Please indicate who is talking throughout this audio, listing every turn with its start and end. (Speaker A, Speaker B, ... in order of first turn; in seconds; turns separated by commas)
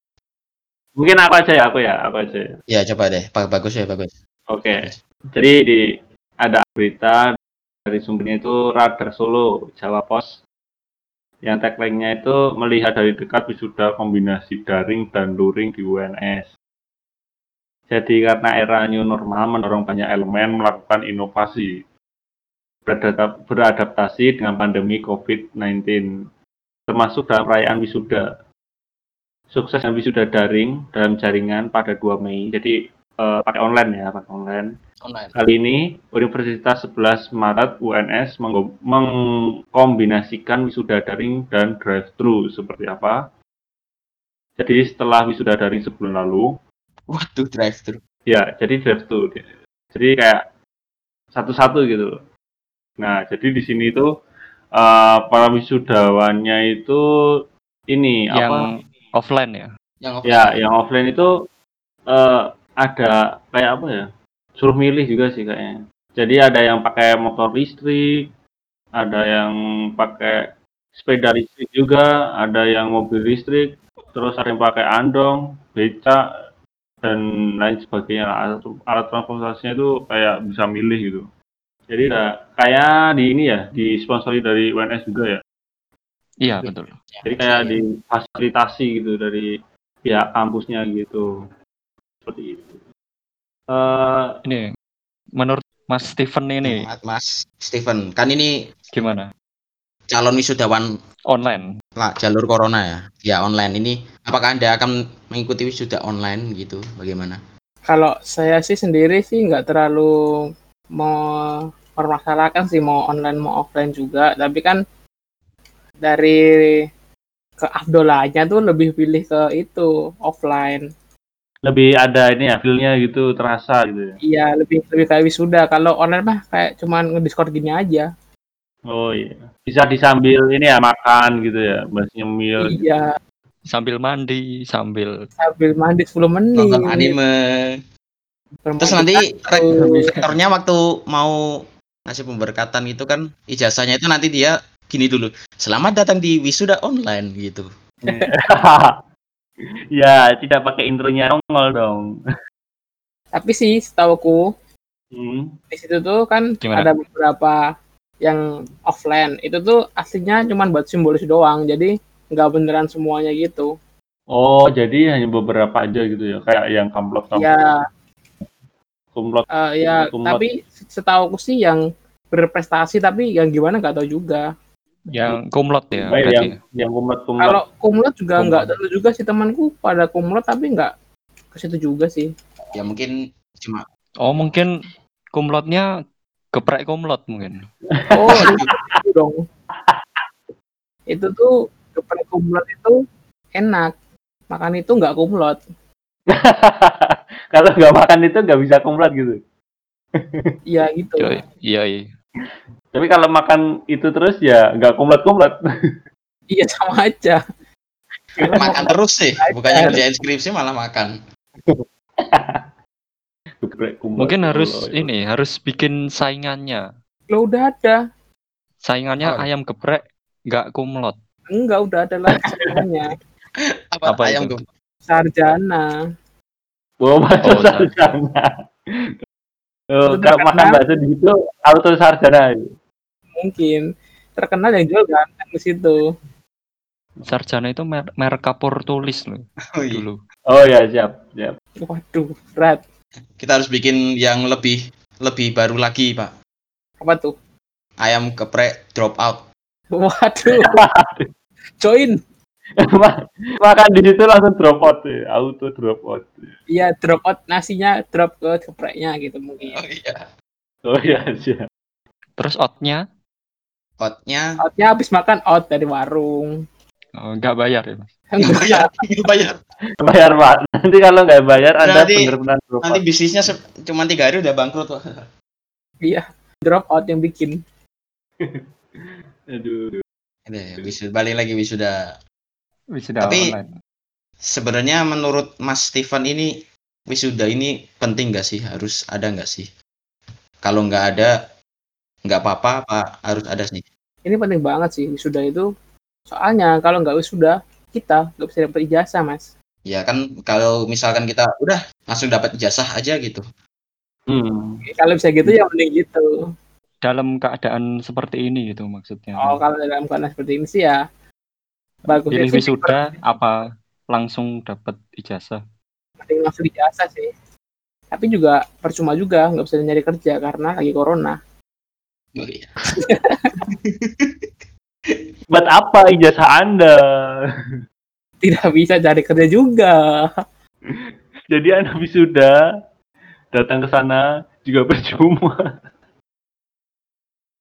Speaker A: 1.0-2.5, Speaker B: 2.7-4.1, Speaker A: 4.5-5.8, Speaker A: 6.4-7.3, Speaker A: 7.9-10.4, Speaker A: 11.4-16.5, Speaker A: 17.9-21.7, Speaker A: 22.9-26.1, Speaker A: 26.9-28.2, Speaker A: 29.5-34.7, Speaker B: 35.0-35.4, Speaker A: 35.4-39.1, Speaker A: 39.7-43.2, Speaker A: 44.6-46.5, Speaker B: 47.1-48.0, Speaker A: 48.3-50.4, Speaker A: 51.3-52.1, Speaker A: 53.0-54.1, Speaker A: 54.8-57.0, Speaker A: 57.9-58.7, Speaker C: 58.3-59.7, Speaker B: 60.0-60.6, Speaker A: 60.3-61.3, Speaker A: 62.1-64.1, Speaker A: 64.6-68.1, Speaker A: 69.0-70.4, Speaker A: 71.0-76.2, Speaker A: 77.0-81.3, Speaker A: 81.9-85.4, Speaker C: 86.4-86.9, Speaker B: 86.6-87.8, Speaker A: 87.2-89.5, Speaker A: 90.0-91.3, Speaker A: 92.2-92.8, Speaker A: 93.7-94.4, Speaker C: 94.5-94.7, Speaker C: 95.4-96.9, Speaker B: 96.6-98.5, Speaker C: 98.9-99.3, Speaker B: 100.1-100.9, Speaker C: 101.3-101.7, Speaker B: 102.0-107.4, Speaker D: 107.9-110.1, Speaker D: 111.0-114.8, Speaker D: 116.0-116.9, Speaker D: 117.6-120.8, Speaker A: 121.7-124.2, Speaker D: 124.3-128.1, Speaker A: 128.9-132.8, Speaker D: 132.6-133.1, Speaker C: 133.7-135.1, Speaker D: 135.4-137.2, Speaker B: 136.6-137.8, Speaker D: 138.7-140.1, Speaker B: 138.8-141.4, Speaker A: 139.8-140.3, Speaker B: 142.1-147.7, Speaker A: 148.1-148.9, Speaker A: 149.9-152.1, Speaker D: 153.3-154.5, Speaker A: 155.1-155.5, Speaker D: 155.7-157.6, Speaker C: 156.6-156.9, Speaker D: 158.2-163.7, Speaker A: 164.3-167.5, Speaker D: 167.3-167.7, Speaker A: 169.1-169.5, Speaker D: 169.6-171.8, Speaker A: 170.1-170.4, Speaker D: 172.3-174.4, Speaker C: 175.1-176.6, Speaker A: 176.1-177.6, Speaker D: 177.4-180.9, Speaker C: 178.4-178.7, Speaker D: 181.5-182.3, Speaker B: 182.8-183.8, Speaker C: 184.2-184.7, Speaker C: 185.3-185.9, Speaker C: 186.5-187.7, Speaker A: 188.0-189.0, Speaker D: 188.1-189.4, Speaker B: 188.3-188.7, Speaker A: 189.8-190.3, Speaker D: 191.1-192.9, Speaker D: 193.6-193.9, Speaker D: 194.5-195.6, Speaker A: 196.3-199.4, Speaker A: 200.2-200.5, Speaker D: 200.7-201.4, Speaker C: 201.2-202.1, Speaker A: 202.9-205.6, Speaker D: 206.5-207.4, Speaker D: 208.4-210.0, Speaker A: 208.4-208.9, Speaker B: 208.6-211.2, Speaker A: 209.8-210.0, Speaker A: 211.6-212.7, Speaker A: 213.6-215.1, Speaker C: 214.2-216.8, Speaker D: 217.3-218.0, Speaker C: 218.8-221.2, Speaker B: 219.2-219.5, Speaker D: 221.5-223.1, Speaker B: 223.9-224.6, Speaker C: 224.1-224.5, Speaker D: 225.1-225.9, Speaker A: 227.0-228.5, Speaker C: 227.4-228.0, Speaker A: 229.9-232.7, Speaker D: 230.1-230.8, Speaker D: 233.4-233.9, Speaker D: 234.4-236.1, Speaker C: 237.3-240.2, Speaker B: 239.7-240.0, Speaker A: 240.5-241.6, Speaker D: 241.8-242.8, Speaker B: 243.4-246.3, Speaker D: 247.0-247.4, Speaker B: 248.0-249.5, Speaker D: 249.9-250.8, Speaker A: 250.5-251.3, Speaker D: 251.8-252.2, Speaker A: 252.8-256.5, Speaker D: 256.7-259.8, Speaker B: 259.7-260.3, Speaker A: 260.9-261.6, Speaker C: 262.4-263.0, Speaker B: 264.0-264.5, Speaker D: 264.6-266.6, Speaker C: 267.1-268.1, Speaker D: 268.3-268.9, Speaker B: 268.4-269.6, Speaker A: 270.0-273.0, Speaker B: 271.8-272.3, Speaker B: 272.8-275.2, Speaker D: 276.0-277.6, Speaker A: 278.4-280.0, Speaker B: 280.5-282.0, Speaker C: 282.9-283.7, Speaker B: 283.2-283.5, Speaker B: 284.5-286.5, Speaker B: 287.1-289.7, Speaker B: 290.6-291.4, Speaker B: 292.3-293.9, Speaker D: 294.2-295.7, Speaker D: 296.3-299.5, Speaker B: 299.9-303.4, Speaker A: 304.3-304.8, Speaker D: 304.9-306.2, Speaker C: 307.0-309.6, Speaker D: 309.4-311.0, Speaker D: 312.1-313.2, Speaker C: 312.3-315.6, Speaker D: 316.2-317.3, Speaker D: 318.1-321.4, Speaker B: 322.4-322.8, Speaker D: 323.0-323.6, Speaker B: 323.7-324.5, Speaker A: 325.5-327.0, Speaker D: 328.4-330.0, Speaker A: 331.5-332.5, Speaker A: 333.5-335.6